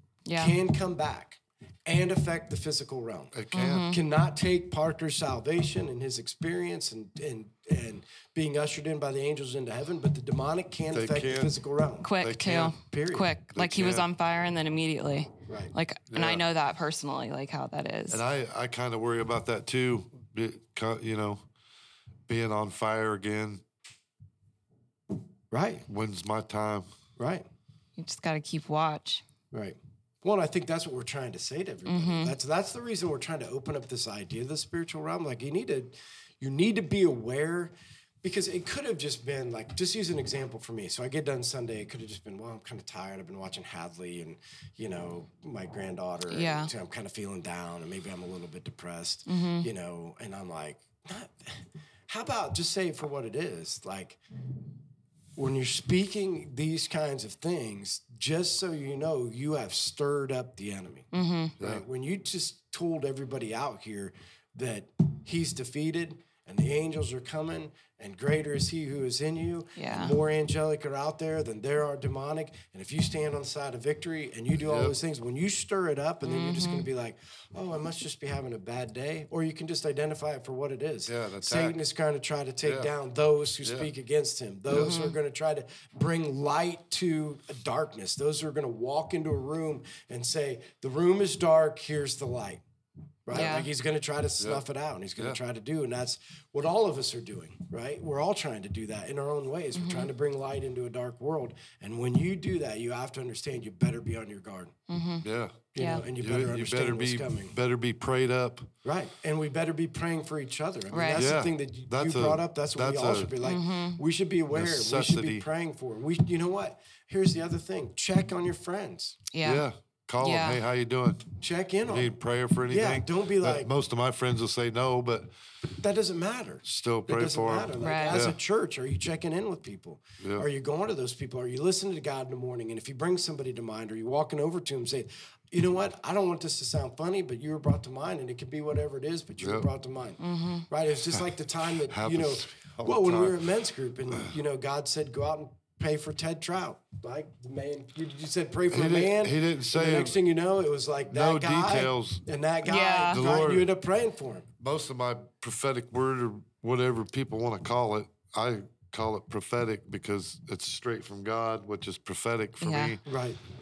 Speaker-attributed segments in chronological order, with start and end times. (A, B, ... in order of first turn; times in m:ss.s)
0:00.3-0:00.6 A
0:00.4-0:12.1 B
0:03.3-0:04.0 C
0:03.5-0:04.0 A
0:10.9-0:11.5 C
0:12.0-0:18.2 A
0:12.2-0:12.8 C
0:12.8-0:13.3 B
0:13.5-0:14.1 C
0:15.5-0:15.7 B
0:16.1-0:16.4 C
0:18.1-0:21.4 C
0:22.3-0:23.6 C
0:25.5-0:25.9 B
0:25.9-0:26.9 C
0:27.2-0:27.5 B
0:28.0-0:29.2 A
0:29.5-0:54.2 B
0:31.9-0:32.4 A
0:46.3-0:46.7 A
0:49.3-0:49.7 A
0:55.4-1:32.6 B
1:01.1-1:01.6 A
1:01.6-1:01.8 C
1:09.8-1:10.1 A
1:14.6-1:14.9 C
1:16.2-1:16.9 A
1:21.1-1:21.8 C
1:22.6-1:22.9 C
1:23.6-1:23.9 C
1:24.7-1:25.2 A
1:33.3-1:44.8 B
1:33.3-1:33.7 A
1:39.8-1:40.1 A
1:44.9-1:45.3 A
1:45.2-1:48.7 C
1:45.7-1:47.5 B
1:45.8-1:46.0 A
1:48.8-1:59.2 B
1:50.9-1:51.3 A
1:51.1-1:53.4 C
1:53.4-1:54.0 A
1:54.5-1:55.4 C
1:59.3-1:59.7 A
1:59.4-2:01.3 C
2:00.2-2:00.6 A
2:01.4-2:02.1 B
2:01.9-2:05.3 C
2:02.7-2:03.7 B
2:05.6-2:34.5 B
2:06.6-2:08.4 C
2:07.8-2:08.3 A
2:10.2-2:10.4 C
2:19.4-2:19.7 C
2:20.2-2:20.7 A
2:21.1-2:23.4 C
2:28.7-2:30.2 C
2:31.1-2:32.2 C
2:32.7-2:33.2 A
2:33.1-2:33.7 C
2:34.6-2:43.0 C
2:42.6-2:43.0 A
2:43.0-2:43.4 B